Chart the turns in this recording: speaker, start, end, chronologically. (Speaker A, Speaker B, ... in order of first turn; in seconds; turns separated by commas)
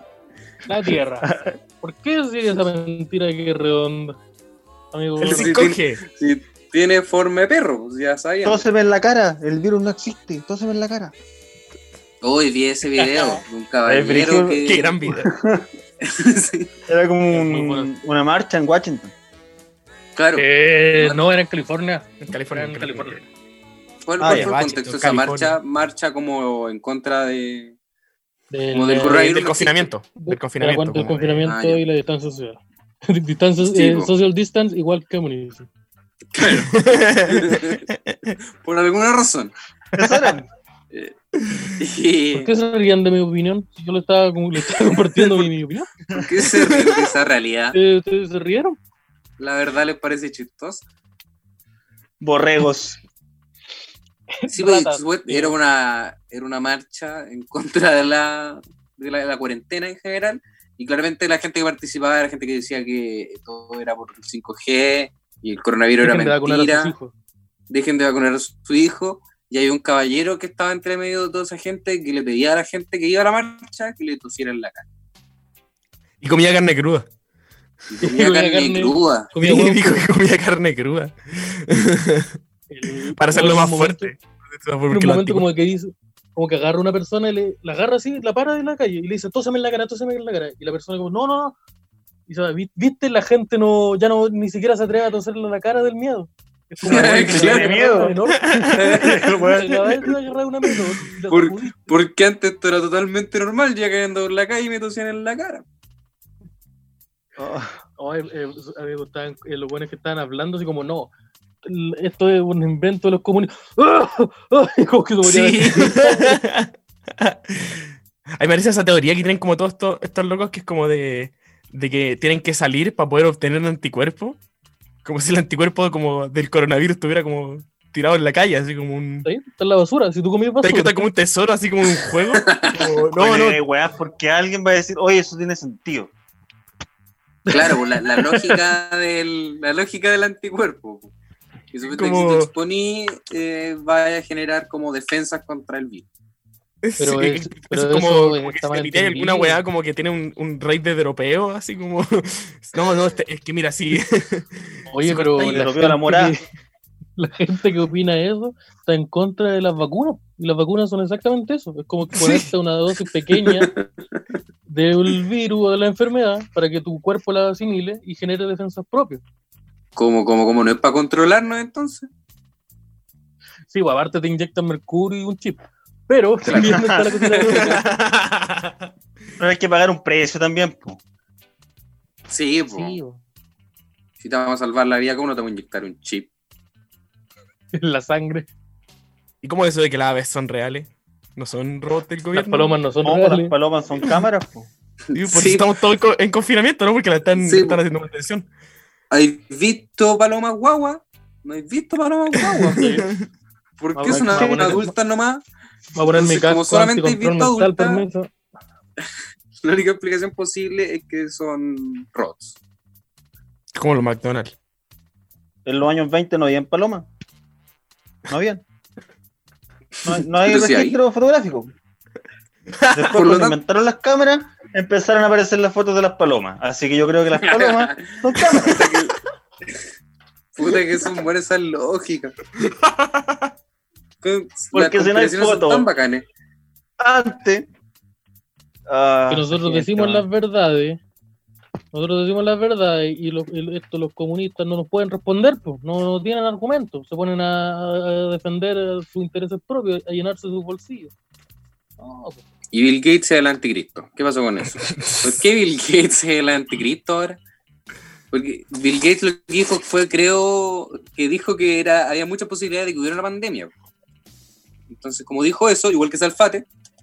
Speaker A: 0.7-4.2, Speaker B: 1.2-1.5, Speaker A: 4.9-5.6, Speaker C: 5.2-6.0, Speaker D: 5.2-8.7, Speaker B: 8.4-11.1, Speaker D: 12.2-14.9, Speaker B: 13.9-15.7, Speaker C: 14.6-15.3, Speaker D: 16.0-16.7, Speaker B: 16.9-19.1, Speaker A: 17.3-17.9, Speaker D: 20.2-20.5, Speaker A: 20.4-23.2, Speaker C: 22.2-23.2, Speaker D: 24.1-27.8, Speaker B: 24.2-24.5, Speaker C: 24.2-25.6, Speaker A: 28.5-29.3, Speaker D: 28.7-29.9, Speaker C: 29.2-31.5, Speaker A: 30.2-35.7, Speaker D: 31.4-31.8, Speaker D: 33.6-34.1, Speaker D: 36.3-37.9, Speaker C: 36.4-38.4, Speaker D: 38.6-39.5, Speaker B: 40.0-40.5, Speaker C: 41.4-41.8, Speaker D: 41.8-42.5, Speaker A: 42.3-45.9, Speaker D: 46.1-47.8, Speaker A: 47.7-48.8, Speaker D: 49.4-50.8, Speaker B: 52.2-53.0, Speaker A: 54.4-55.5, Speaker D: 54.5-66.9, Speaker A: 66.0-67.1, Speaker D: 67.7-74.8, Speaker C: 76.2-77.1, Speaker D: 77.9-79.3, Speaker A: 78.0-80.1, Speaker C: 79.4-82.4, Speaker A: 82.7-84.1, Speaker C: 83.1-85.5, Speaker A: 84.9-91.5, Speaker A: 92.3-102.0, Speaker D: 96.8-98.0, Speaker B: 96.9-100.1, Speaker C: 98.4-99.0, Speaker D: 98.7-99.2, Speaker D: 101.3-105.6, Speaker B: 107.4-107.8, Speaker A: 108.0-111.1, Speaker A: 111.6-116.4, Speaker C: 115.2-124.4, Speaker C: 125.0-129.3, Speaker A: 129.2-131.1, Speaker C: 130.6-133.6, Speaker D: 132.3-132.9, Speaker B: 133.2-136.1, Speaker A: 137.5-138.6, Speaker D: 137.5-141.1, Speaker D: 141.7-146.1, Speaker C: 141.9-142.5, Speaker C: 146.8-155.7, Speaker A: 147.0-149.6, Speaker A: 154.9-156.4, Speaker B: 155.4-156.4, Speaker A: 157.2-163.7, Speaker C: 162.2-162.4, Speaker D: 163.4-163.9, Speaker A: 164.7-169.2, Speaker D: 170.0-172.1, Speaker A: 173.7-177.8, Speaker D: 176.4-177.8, Speaker B: 176.5-177.1, Speaker C: 177.4-178.9, Speaker B: 179.4-181.0, Speaker D: 182.3-183.0, Speaker A: 182.7-183.2, Speaker D: 184.2-186.3, Speaker A: 187.7-188.5, Speaker C: 189.4-192.8, Speaker A: 192.3-193.6, Speaker B: 193.0-194.7, Speaker D: 195.1-195.7, Speaker C: 195.1-198.5, Speaker D: 197.4-197.8, Speaker D: 199.1-203.0, Speaker C: 202.4-203.2, Speaker A: 202.7-203.1, Speaker D: 203.8-205.4, Speaker A: 203.9-204.9, Speaker B: 204.3-204.8, Speaker A: 205.9-208.3, Speaker D: 206.1-208.0, Speaker D: 209.6-212.6, Speaker C: 213.8-214.5, Speaker B: 215.7-217.1, Speaker B: 218.3-218.6, Speaker B: 220.0-221.7, Speaker D: 220.4-221.0, Speaker C: 222.8-223.1, Speaker B: 222.9-228.9, Speaker D: 223.1-223.6, Speaker D: 227.3-229.2, Speaker D: 230.6-232.4, Speaker C: 232.6-233.5, Speaker D: 234.2-236.2, Speaker B: 234.7-235.9, Speaker B: 237.0-237.7, Speaker B: 238.9-240.3, Speaker A: 239.3-241.0, Speaker A: 241.9-251.1, Speaker A: 252.0-252.4, Speaker D: 252.7-257.4, Speaker D: 258.3-263.7, Speaker D: 264.9-266.7